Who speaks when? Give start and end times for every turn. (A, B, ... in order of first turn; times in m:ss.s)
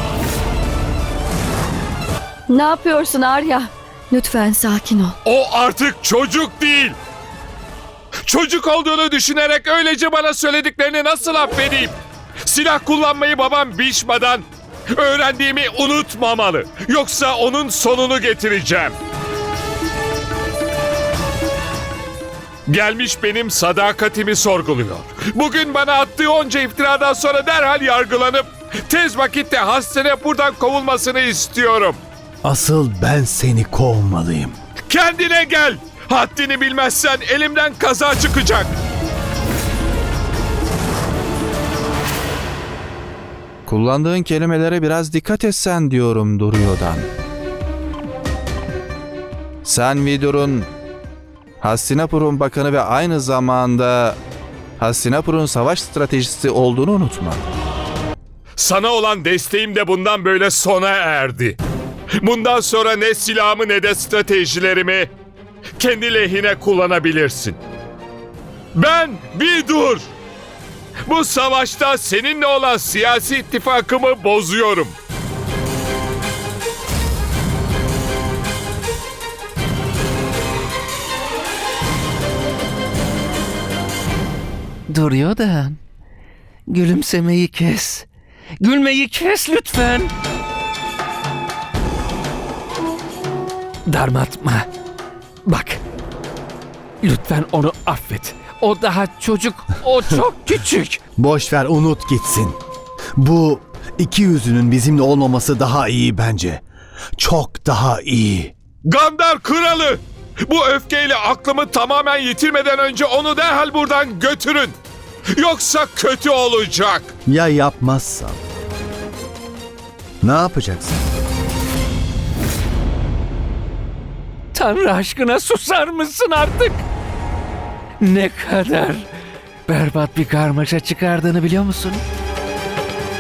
0:02.5-0:05.2 A
0:05.2-0:07.0 B
0:08.2-0:19.0 B
0:22.7-0:32.0 B
0:32.4-0:34.6 C
0:34.9-0:38.7 B
0:43.7-0:47.1 D
0:49.6-0:50.7 D
0:51.6-0:54.2 D
0:54.8-0:57.4 D
0:58.6-1:01.6 B
1:02.2-1:05.1 B
1:05.8-1:07.6 B
1:08.7-1:10.1 B
1:11.1-1:15.0 B
1:24.9-1:25.8 E
1:26.7-1:28.1 E
1:28.6-1:30.1 E
1:33.9-1:34.7 E
1:35.4-1:35.8 E
1:37.0-1:41.0 E
1:41.2-1:42.6 C
1:43.2-1:46.6 C
1:47.2-1:48.5 C
1:48.8-1:54.8 B
1:55.4-1:57.1 B
1:57.3-1:58.4 C
2:00.2-2:01.0 C
2:04.5-2:06.8 E
2:08.0-2:09.1 E
2:09.7-2:12.0 E